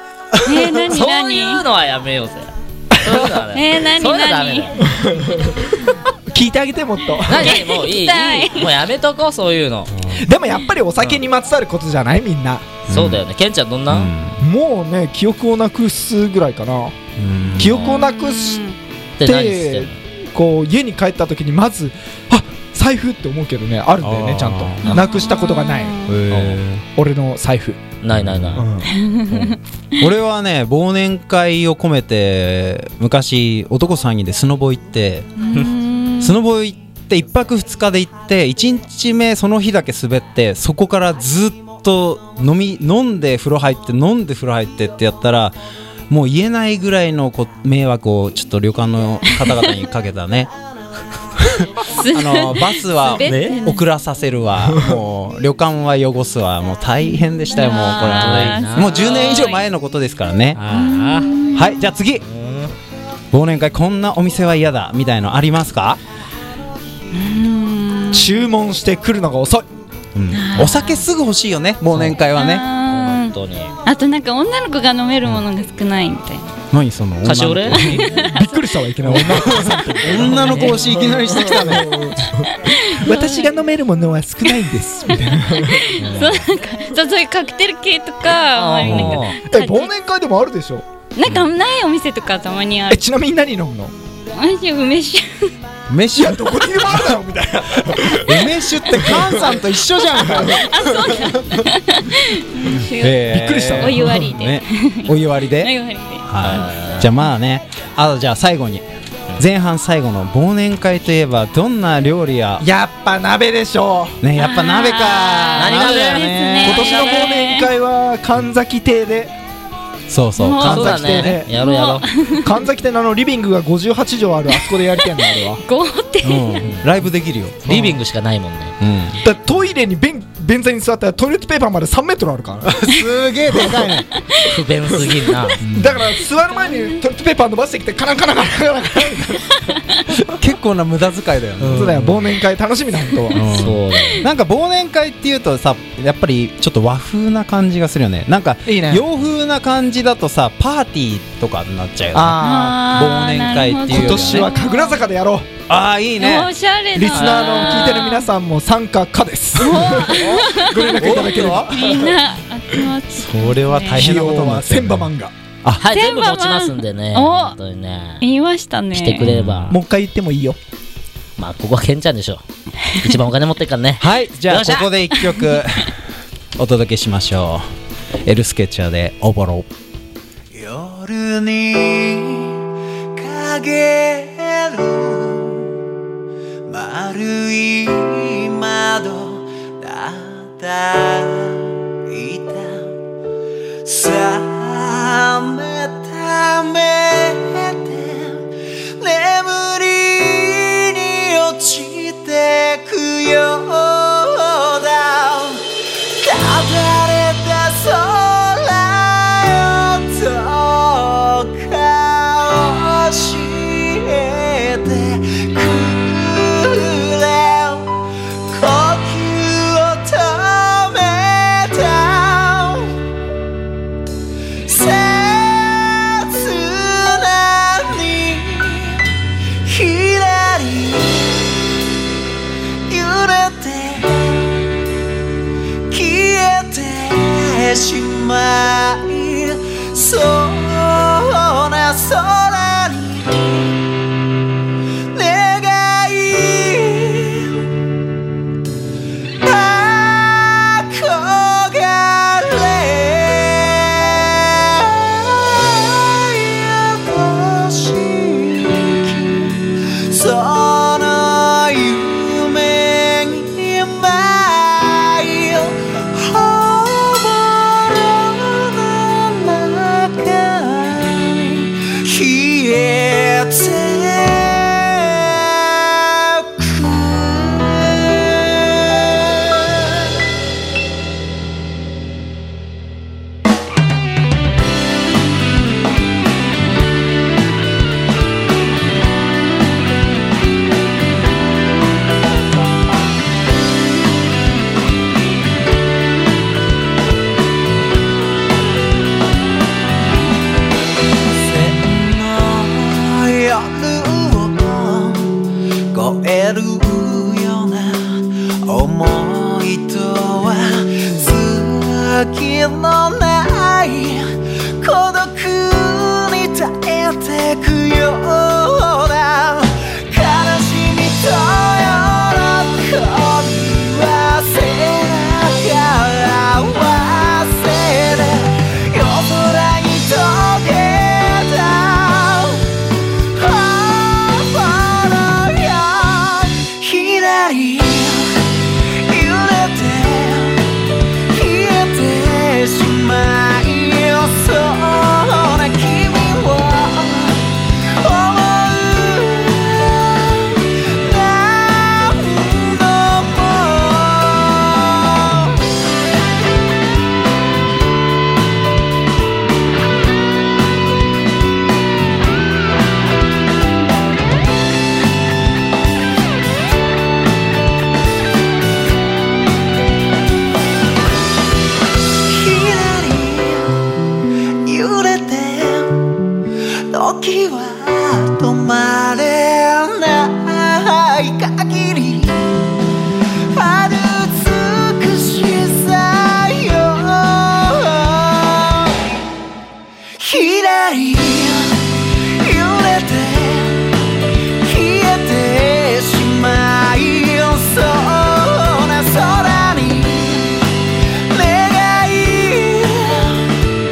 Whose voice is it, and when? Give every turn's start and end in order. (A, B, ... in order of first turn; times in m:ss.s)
0:00.3-0:00.8 A
0:00.4-0:01.6 B
0:00.9-0:04.8 C
0:03.0-0:03.3 D
0:03.5-0:04.8 B
0:04.8-0:07.6 D
0:07.2-0:10.1 C
0:07.3-0:08.7 B
0:10.1-0:12.7 D
0:12.9-0:13.2 A
0:12.9-0:14.1 C
0:13.9-0:14.4 A
0:14.4-0:17.0 D
0:17.2-0:17.9 A
0:17.6-0:18.6 D
0:17.8-0:18.8 B
0:19.2-0:19.9 C
0:19.2-0:26.0 D
0:24.0-0:25.1 A
0:24.9-0:26.2 B
0:26.1-0:26.8 A
0:26.3-0:26.6 C
0:27.0-0:27.8 D
0:28.0-0:28.7 C
0:28.1-0:28.6 A
0:28.6-0:29.0 D
0:28.9-0:29.6 B
0:30.0-0:35.3 A
0:35.4-0:36.4 B
0:36.2-0:45.6 A
0:46.1-0:50.5 A
0:49.3-0:49.6 B
0:51.4-1:00.6 A
0:51.9-0:53.9 B
0:53.2-0:53.6 C
0:57.5-0:59.4 B
0:57.9-0:59.6 C
1:00.6-1:01.3 C
1:00.7-1:01.9 B
1:01.5-1:02.2 A
1:02.2-1:02.7 C
1:03.3-1:06.0 A
1:07.1-1:08.3 B
1:08.1-1:09.6 D
1:10.2-1:12.7 A
1:10.3-1:11.0 B
1:11.9-1:12.2 C
1:12.3-1:13.3 B
1:12.8-1:13.7 C
1:13.8-1:16.5 B
1:16.7-1:18.1 A
1:17.2-1:18.0 C
1:17.8-1:18.7 B
1:17.8-1:25.8 D
1:19.1-1:22.1 A
1:20.2-1:20.8 C
1:21.3-1:23.5 B
1:24.5-1:29.9 B
1:26.0-1:26.5 A
1:28.6-1:29.4 C
1:28.8-1:29.2 A
1:29.5-1:30.8 D
1:31.2-1:33.0 B
1:32.9-1:33.9 D
1:34.3-1:35.5 B
1:35.9-1:37.2 A
1:36.2-1:39.6 D
1:38.0-1:41.7 A
1:40.2-1:40.6 D
1:40.2-1:46.7 B
1:42.8-1:45.7 A
1:43.3-1:44.3 D
1:46.3-1:48.8 A
1:46.4-1:47.1 C
1:49.4-1:52.7 A
1:52.6-1:54.2 D
1:54.2-1:56.8 A
1:54.4-1:57.7 B
1:55.6-1:57.3 C
1:56.6-1:59.3 D
2:00.1-2:01.4 A
2:00.4-2:02.6 B
2:00.6-2:01.5 D
2:00.6-2:02.1 C
2:02.3-2:05.6 D
2:04.6-2:06.7 B
2:06.2-2:07.9 A
2:07.7-2:08.8 C
2:08.8-2:09.2 A
2:09.2-2:12.9 D
2:12.6-2:14.1 A
2:13.5-2:13.9 D
2:13.9-2:14.6 B
2:14.4-2:15.6 C
2:15.6-2:16.2 A
2:15.7-2:20.2 D
2:16.5-2:17.0 B
2:20.3-2:22.2 A
2:21.6-2:22.1 C
2:21.7-2:23.4 D
2:23.3-2:34.5 A
2:23.5-2:24.3 C
2:23.9-2:24.2 B
2:28.7-2:29.0 D
2:32.1-2:32.9 D
2:32.4-2:35.0 B
2:33.9-2:35.5 D
2:35.7-2:36.5 A
2:36.2-2:38.3 B
2:37.0-2:42.2 D
2:37.1-2:37.9 C
2:39.6-2:44.1 B
2:41.0-2:42.0 A
2:43.2-2:45.1 A
2:43.9-2:45.3 D
2:45.8-2:48.2 C
2:45.9-2:47.6 B
2:48.2-2:49.3 B
2:48.9-2:49.8 C
2:49.2-2:49.8 A
2:49.7-2:50.6 D
2:51.4-2:52.4 C
2:53.0-2:54.9 C
2:54.0-2:56.0 A
2:55.2-2:55.4 B
2:56.6-2:57.6 A
2:58.2-2:59.7 A
3:00.5-3:02.6 E
3:03.2-3:05.7 E
3:06.7-3:12.9 E
3:13.8-3:37.9 E
3:38.5-3:43.0 E
3:44.6-3:49.0 E
3:49.6-3:51.7 E
3:52.9-3:54.7 E
3:55.9-4:03.9 E
4:05.1-4:07.6 E
4:09.4-4:40.3 E
5:01.3-5:55.6 E
6:12.2-6:13.8 E
6:14.6-6:16.0 E
6:16.9-6:22.6 E
6:23.5-6:29.0 E
6:30.2-6:43.6 E